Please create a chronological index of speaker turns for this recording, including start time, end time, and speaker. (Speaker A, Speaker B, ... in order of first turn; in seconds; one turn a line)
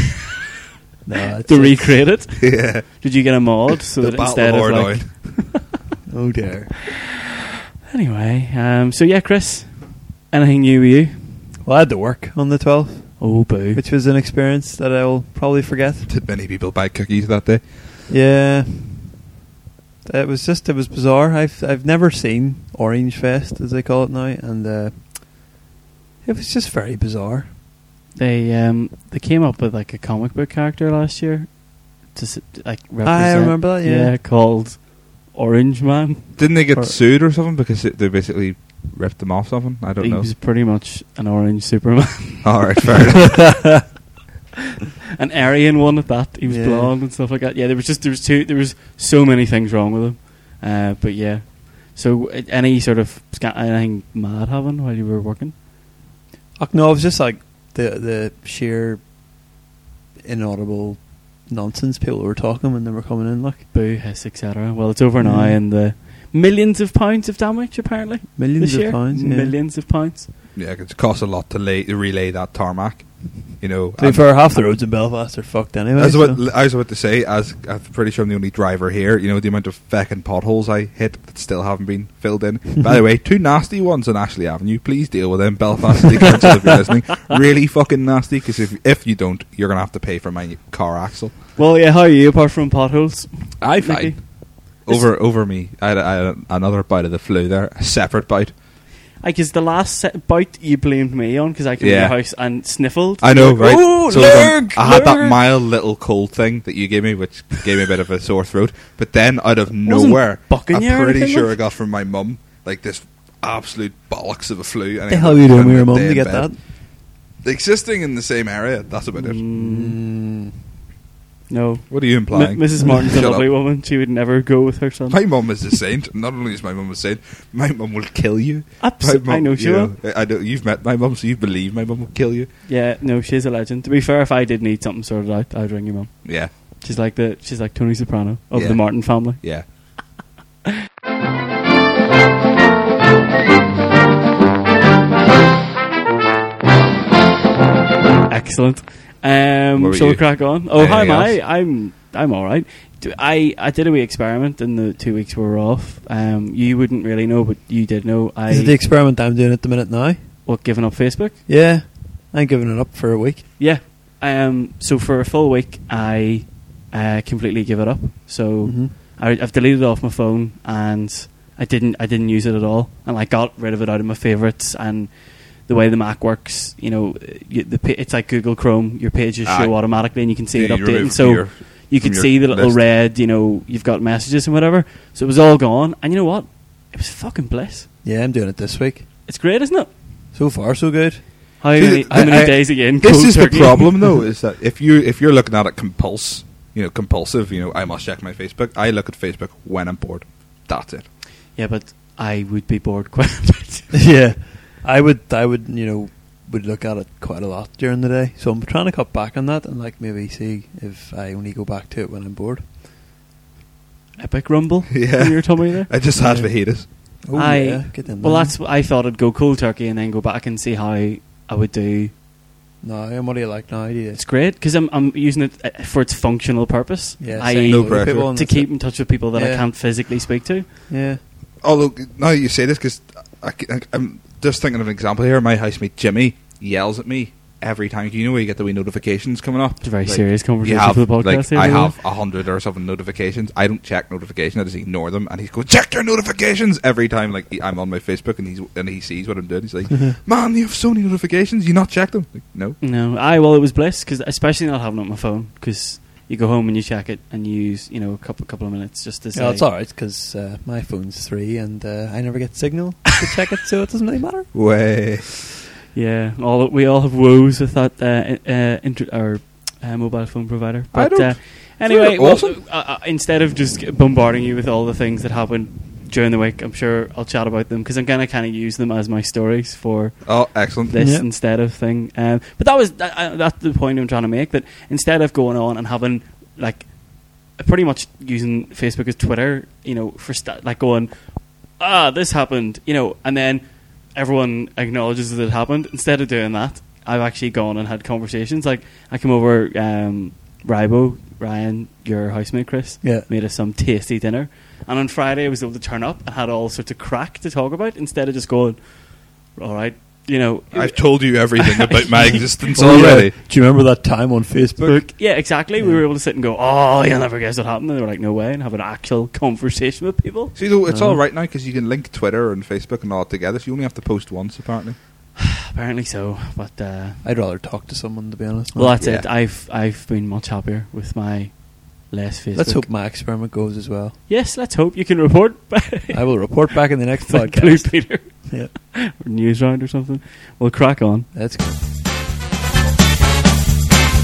Speaker A: 1.0-2.2
Speaker B: 1.4-5.6
Speaker C: 2.4-3.0
Speaker C: 4.0-5.1
Speaker A: 6.1-6.8
Speaker B: 7.9-11.4
Speaker A: 11.6-16.1
Speaker B: 13.2-13.8
Speaker C: 16.1-17.7
Speaker A: 18.1-19.2
Speaker A: 20.0-25.2
Speaker A: 26.2-27.5
Speaker B: 28.1-36.4
Speaker A: 33.0-34.1
Speaker C: 36.4-40.3
Speaker B: 40.0-42.7
Speaker C: 42.4-43.6
Speaker B: 45.2-55.6
Speaker A: 46.4-46.9
Speaker A: 56.6-59.0
Speaker A: 60.2-63.7
Speaker B: 63.7-70.3
Speaker A: 65.2-65.6
Speaker A: 68.4-69.5
Speaker C: 70.5-74.2
Speaker A: 74.0-76.4
Speaker C: 76.0-91.4
Speaker B: 91.6-95.0
Speaker C: 93.6-98.5
Speaker B: 99.2-105.4
Speaker C: 101.8-102.2
Speaker C: 103.2-116.6
Speaker B: 109.8-111.6
Speaker A: 115.1-116.6
Speaker C: 117.4-119.4
Speaker B: 119.2-120.0
Speaker A: 119.5-120.6
Speaker B: 121.5-125.2
Speaker C: 121.9-123.5
Speaker C: 125.1-132.5
Speaker B: 128.8-129.9
Speaker B: 132.7-139.4
Speaker C: 136.2-136.5
Speaker C: 138.5-139.7
Speaker B: 148.3-158.8
Speaker C: 149.8-151.4
Speaker A: 158.5-160.2
Speaker B: 160.4-161.4
Speaker A: 161.4-163.4
Speaker B: 163.6-187.9
Speaker A: 168.6-168.9
Speaker C: 179.4-182.8
Speaker A: 188.0-189.1
Speaker B: 189.2-189.9
Speaker A: 190.3-191.3
Speaker B: 191.6-194.0
Speaker C: 191.8-201.1
Speaker B: 201.5-204.0
Speaker A: 203.9-212.6
Speaker B: 214.2-215.9
Speaker C: 214.9-216.9
Speaker A: 216.2-218.6
Speaker B: 217.3-222.1
Speaker A: 222.8-224.2
Speaker B: 224.1-230.7
Speaker A: 227.2-229.7
Speaker C: 227.6-228.3
Speaker A: 230.9-231.2
Speaker C: 231.6-252.8
Speaker B: 239.8-241.9
Speaker B: 252.8-259.7
Speaker A: 259.3-264.5
Speaker C: 264.5-265.3
Speaker B: 265.9-280.3
Speaker C: 270.9-272.6
Speaker C: 280.2-280.9
Speaker B: 280.9-312.5
Speaker A: 280.9-281.2
Speaker A: 303.0-303.3
Speaker C: 310.7-313.3
Speaker A: 312.7-316.0
Speaker B: 314.8-320.6
Speaker C: 320.6-325.0
Speaker A: 320.9-321.2
Speaker B: 325.4-327.2
Speaker A: 327.2-328.9
Speaker B: 328.7-332.9
Speaker C: 329.0-329.3
Speaker A: 332.5-334.1
Speaker B: 334.3-341.3
Speaker A: 336.1-338.7
Speaker A: 341.3-341.8